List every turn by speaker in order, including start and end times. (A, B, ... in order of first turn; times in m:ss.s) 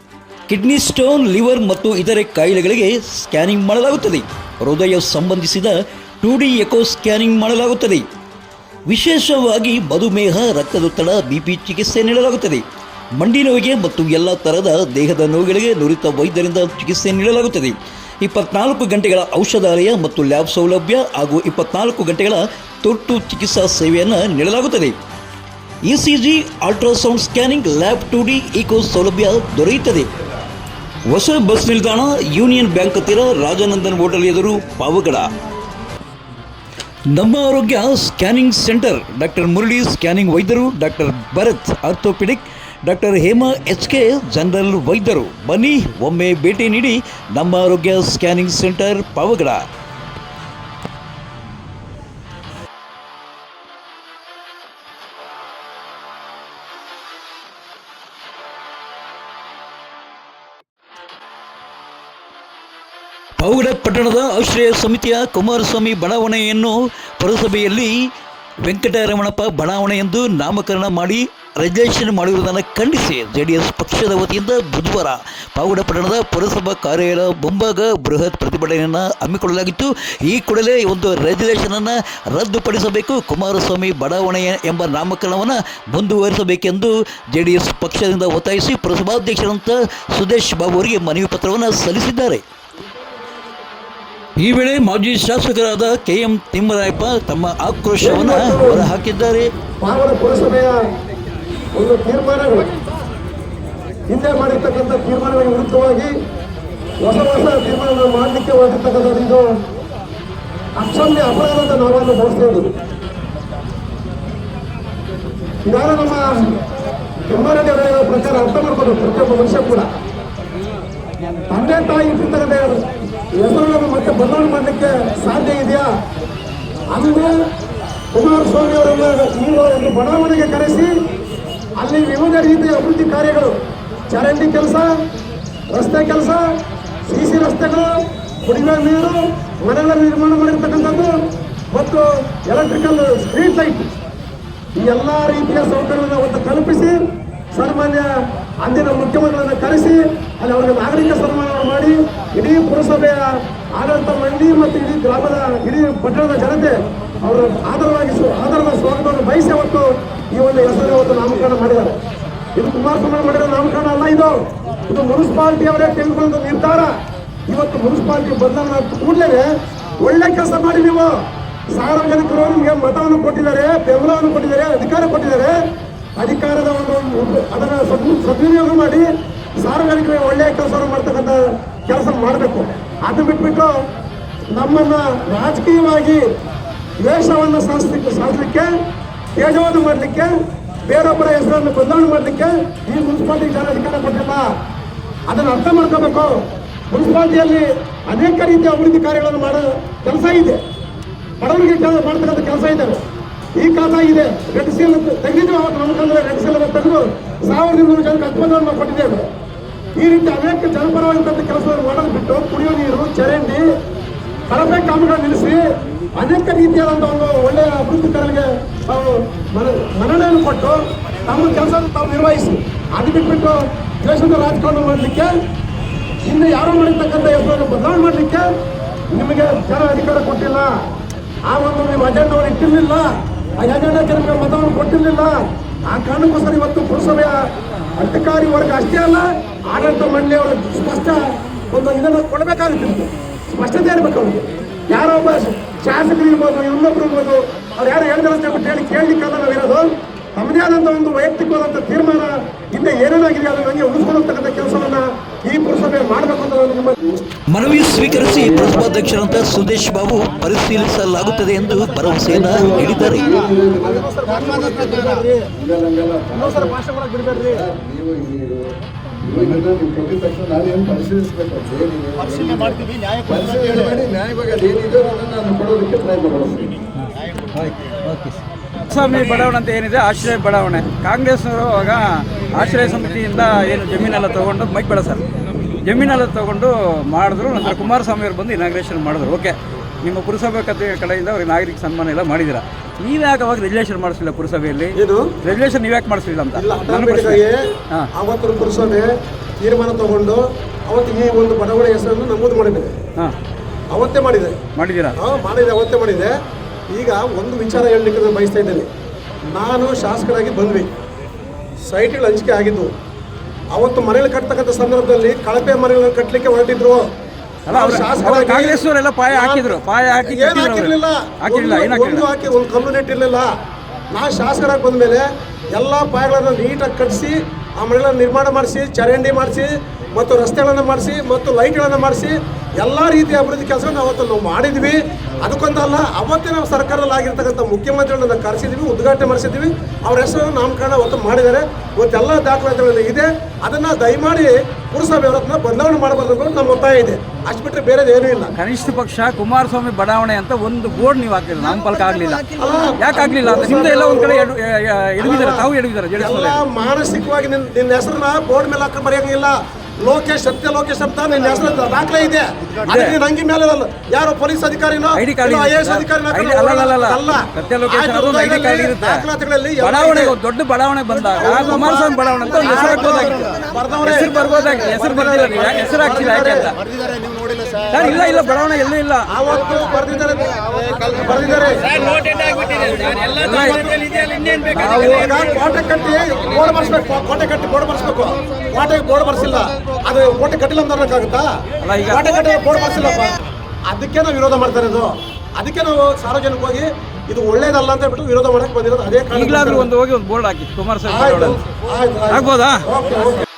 0:00.5-0:08.1 A
0:08.9-0:12.6 A
0:13.2-0:25.0 A
0:25.9-0:30.1 A
0:31.1-0:35.3 A
0:37.1-0:49.6 A
1:03.4-1:08.0 A
1:08.6-1:32.4 A
1:34.4-1:39.5 A
1:38.0-1:38.9 B
1:39.8-1:40.8 B
1:41.8-1:42.7 B
1:44.1-1:46.1 B
1:47.0-1:49.6 B
1:50.8-1:52.7 B
1:55.6-1:56.3 B
1:57.3-1:59.9 B
2:01.5-2:02.8 B
2:03.4-2:05.9 B
2:06.9-2:07.4 B
2:08.1-2:10.9 B
2:11.8-2:13.5 B
2:14.1-2:14.9 B
2:15.7-2:16.5 B
2:17.1-2:21.2 B
2:21.7-2:23.9 B
2:24.8-2:27.0 B
2:27.5-2:28.1 B
2:28.6-2:42.0 B
2:42.6-2:44.4 B
2:44.9-2:46.9 B
2:47.5-2:51.1 B
2:51.7-2:55.6 B
2:56.2-2:59.1 B
2:59.6-3:03.7 B
3:04.5-3:06.2 B
3:07.0-3:08.7 B
3:09.4-3:10.3 B
3:10.9-3:14.5 B
3:15.3-3:20.6 B
3:21.4-3:23.0 B
3:23.6-3:29.3 B
3:30.0-3:33.6 B
3:34.5-3:35.6 B
3:36.2-3:45.3 B
3:46.2-3:48.5 B
3:49.1-3:50.7 B
3:51.5-3:57.4 B
3:58.0-4:17.2 B
4:17.5-4:23.4 A
4:18.0-4:18.7 C
4:22.3-4:24.9 C
4:22.7-4:25.5 B
4:25.5-4:26.8 C
4:26.3-4:27.6 B
4:27.3-4:36.8 C
4:38.9-4:45.2 D
4:45.8-4:58.1 D
4:55.0-4:55.4 B
4:56.6-4:59.1 B
4:59.6-5:02.9 B
5:03.9-5:04.6 B
5:04.8-5:05.2 D
5:05.2-5:06.3 B
5:06.9-5:08.9 B
5:09.5-5:10.9 B
5:11.9-5:12.9 B
5:13.7-5:17.0 B
5:17.7-5:22.3 D
5:17.7-5:19.7 B
5:20.2-5:23.5 B
5:24.1-5:48.6 B
5:48.6-5:56.6 D
5:52.6-5:54.5 B
5:55.2-6:10.4 B
6:02.8-6:03.2 D
6:05.2-6:09.3 D
6:09.8-6:16.8 D
6:11.3-6:16.7 B
6:17.9-6:19.3 D
6:18.0-6:18.3 B
6:19.3-6:22.3 B
6:22.6-6:23.9 D
6:23.2-6:31.5 B
6:24.7-6:25.3 D
6:31.8-6:32.3 D
6:32.1-6:39.9 B
6:39.3-6:41.6 D
6:41.1-6:43.4 B
6:42.3-6:42.8 D